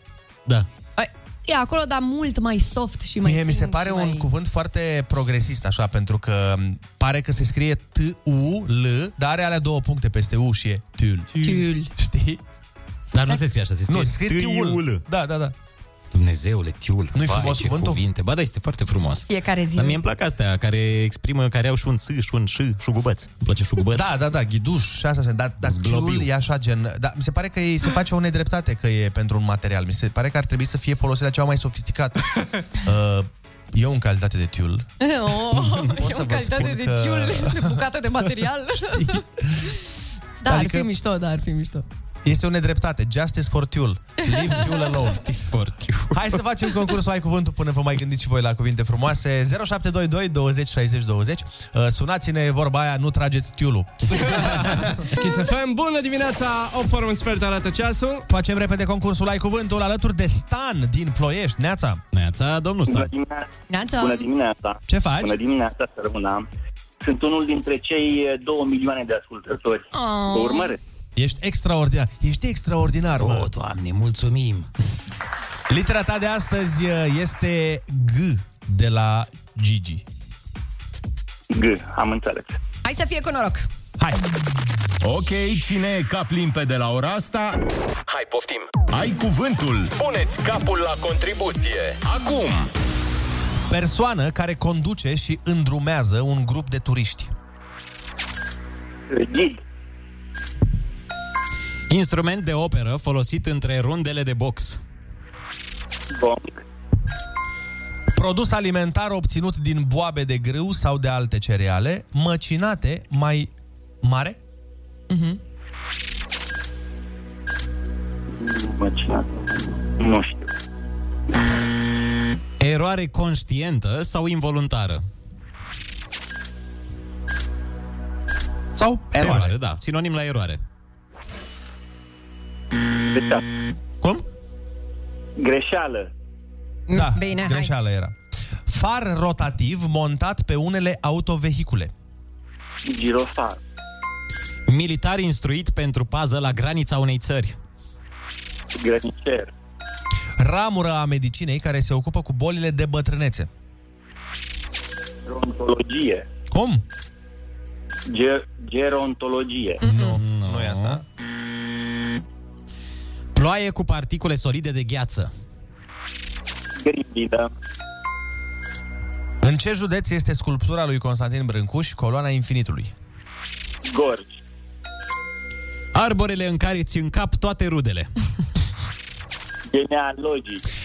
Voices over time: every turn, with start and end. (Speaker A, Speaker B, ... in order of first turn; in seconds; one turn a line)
Speaker A: 0.9-4.2
Speaker B: 3.2-12.4
Speaker A: 11.4-11.9
Speaker C: 13.1-15.0
Speaker B: 13.9-15.5
Speaker C: 16.1-24.1
Speaker B: 17.1-18.0
Speaker A: 19.3-20.0
Speaker B: 23.9-32.2
Speaker C: 25.6-26.3
Speaker B: 32.8-34.9
Speaker A: 35.0-39.2
Speaker B: 35.5-37.8
Speaker B: 38.9-39.2
Speaker A: 40.4-41.8
Speaker B: 40.5-40.9
Speaker B: 42.2-45.2
Speaker C: 45.0-46.4
Speaker B: 46.1-54.8
Speaker D: 54.2-58.2
Speaker B: 58.3-62.0
Speaker C: 62.1-63.1
Speaker E: 62.9-66.4
Speaker A: 63.7-64.3
Speaker B: 64.9-65.3
Speaker E: 67.0-70.8
Speaker A: 69.9-70.7
Speaker B: 71.2-73.5
Speaker C: 73.2-74.7
Speaker B: 75.7-80.0
Speaker E: 81.5-82.6
Speaker A: 82.8-83.7
Speaker F: 85.0-92.7
Speaker B: 93.7-97.3
Speaker E: 99.1-99.6
Speaker C: 101.9-104.8
Speaker E: 106.1-106.6
Speaker B: 108.1-113.5
Speaker B: 114.0-114.4
Speaker A: 115.1-115.4
Speaker E: 118.3-120.5
Speaker C: 122.6-125.0
Speaker B: 128.8-129.5
Speaker C: 129.2-130.6
Speaker E: 133.1-133.4
Speaker E: 135.4-136.1
Speaker A: 136.9-137.7
Speaker B: 136.9-138.1
Speaker B: 138.7-141.9
Speaker E: 142.8-143.6
Speaker C: 144.7-147.6
Speaker E: 148.7-149.5
Speaker B: 150.4-153.5
Speaker E: 155.2-156.3
Speaker B: 156.5-156.8
Speaker E: 158.1-159.8
Speaker A: 159.8-160.2
Speaker B: 159.8-161.0
Speaker C: 160.2-161.0
Speaker C: 163.3-165.3
Speaker E: 166.8-167.5
Speaker B: 169.4-172.9
Speaker E: 173.8-174.4
Speaker C: 175.9-178.1
Speaker E: 179.7-180.6